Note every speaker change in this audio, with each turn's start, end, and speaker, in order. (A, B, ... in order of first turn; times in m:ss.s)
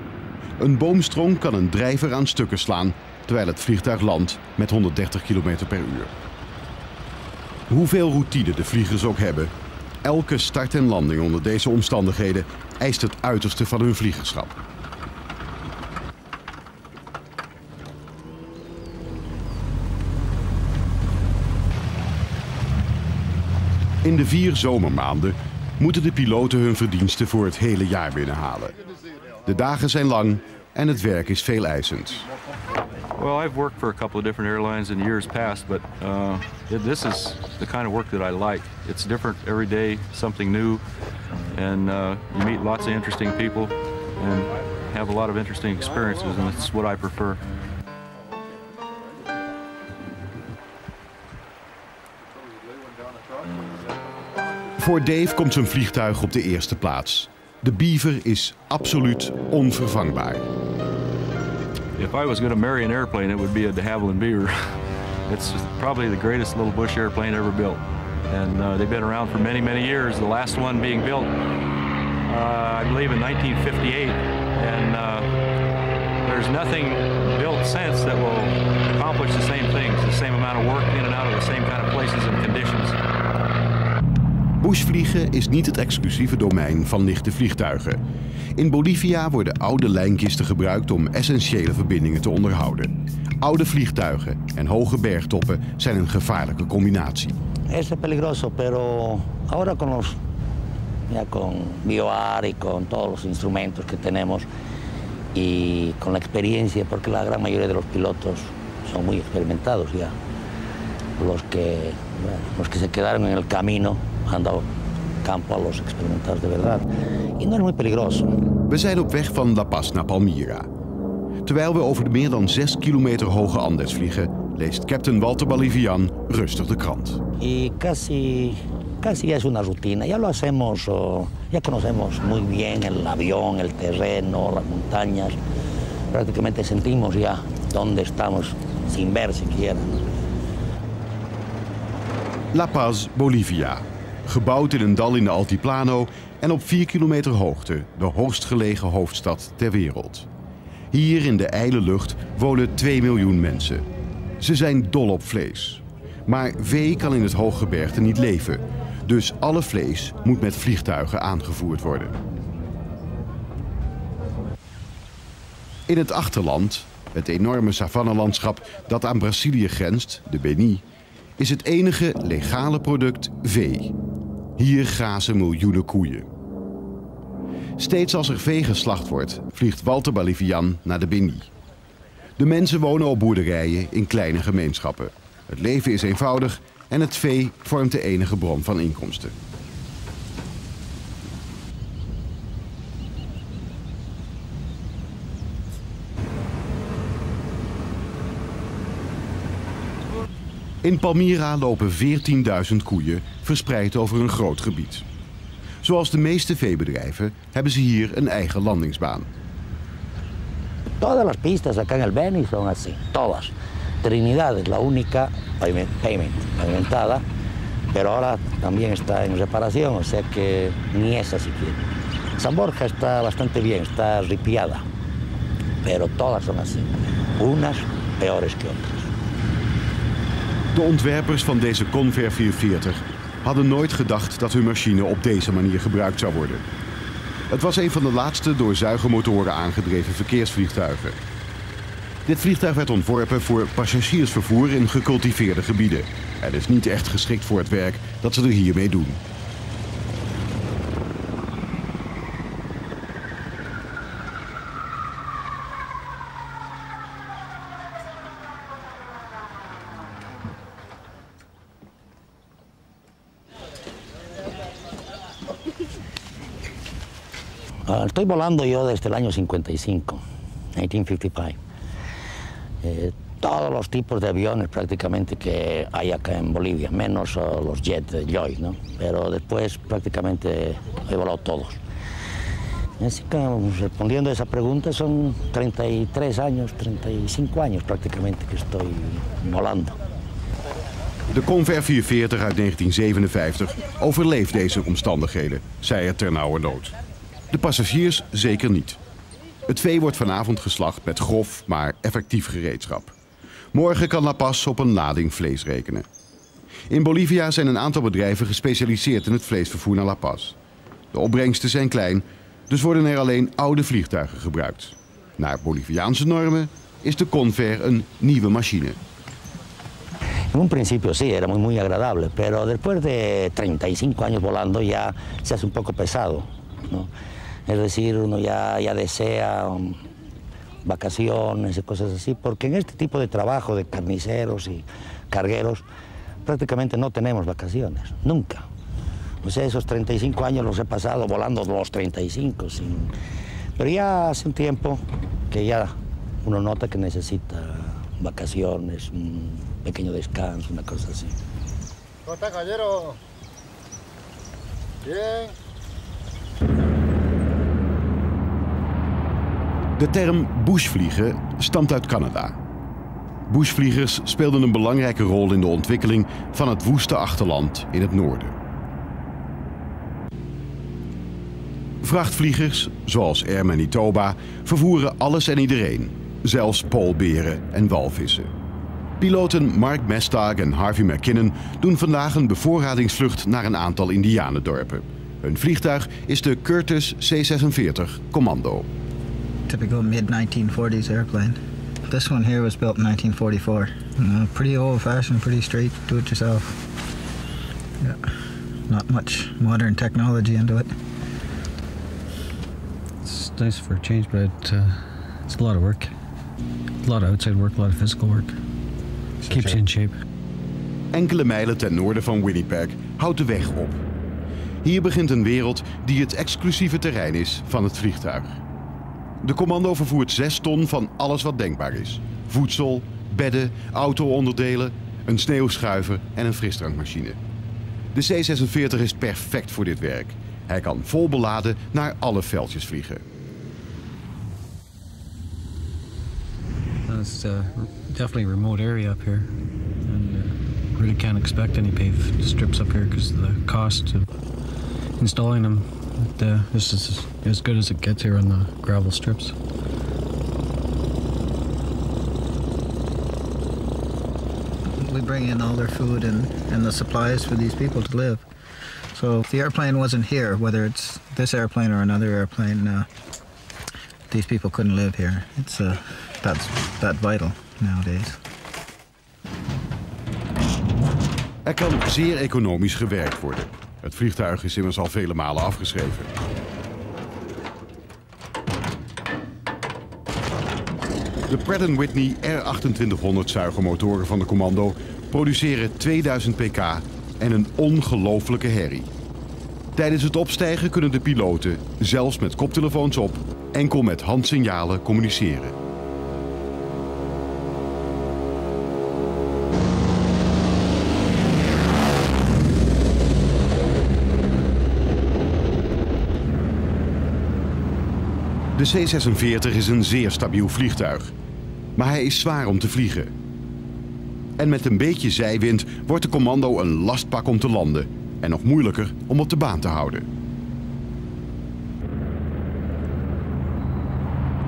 0:00.6-0:06.1 A
0:07.7-0:09.5 A
0:10.0-0:14.6 A
0:24.0-0:28.8 A
0:29.4-0:32.3 A
0:33.2-0:40.8 B
0:41.5-0:47.4 B
0:54.8-1:00.4 A
1:02.0-1:11.3 B
1:12.3-1:15.3 B
1:16.2-1:23.0 B
1:24.6-1:28.0 A
1:28.6-1:37.4 A
1:37.7-1:40.2 C
1:41.1-1:44.5 C
1:45.3-1:50.1 C
1:51.2-1:54.6 C
1:55.2-1:58.4 C
1:58.7-2:00.7 A
2:01.4-2:07.2 A
2:07.4-2:15.4 C
2:16.1-2:20.0 C
2:22.5-2:30.3 A
2:30.9-2:33.8 A
2:34.4-2:42.2 A
2:45.9-2:50.8 A
2:51.4-2:53.9 A
2:54.6-2:56.3 A
2:57.8-3:01.5 A
3:02.4-3:09.4 A
3:20.8-3:25.0 A
3:25.8-3:29.3 A
3:31.0-3:37.2 C
3:37.9-3:41.8 C
3:42.4-3:44.8 C
3:45.8-3:49.1 C
3:50.7-3:56.6 A
3:57.5-4:01.2 A
4:02.2-4:09.2 A
4:27.8-4:30.2 C
4:30.7-4:31.6 C
4:32.8-4:41.8 C
4:43.0-4:50.0 C
4:51.3-4:57.0 A
4:57.5-4:59.0 A
4:59.7-5:03.1 A
5:03.7-5:06.0 A
5:06.9-5:10.6 A
5:11.1-5:19.0 A
5:20.5-5:27.1 C
5:27.7-5:30.0 C
5:30.8-5:35.8 C
5:36.4-5:38.7 C
5:39.4-5:43.1 C
5:43.8-5:51.4 C
6:00.0-6:02.6 A
6:03.5-6:08.6 A
6:12.0-6:18.5 A
6:19.2-6:28.9 A
6:29.7-6:36.8 D
6:38.9-6:40.9 D
6:43.2-6:46.1 E
6:47.0-6:48.6 E
6:49.4-6:50.2 E
6:51.1-6:54.0 A
6:54.8-6:58.6 A
6:59.4-7:07.4 A
7:08.1-7:13.2 A
7:17.0-7:19.5 E
7:20.0-7:24.3 E
7:25.2-7:29.6 E
7:35.0-7:38.4 D
7:39.1-7:43.1 D
7:44.3-7:48.4 D
7:51.6-7:56.3 A
8:01.5-8:09.1 A
8:09.9-8:15.8 A
8:28.8-8:31.3 A
8:32.0-8:33.3 A
8:34.6-8:40.3 A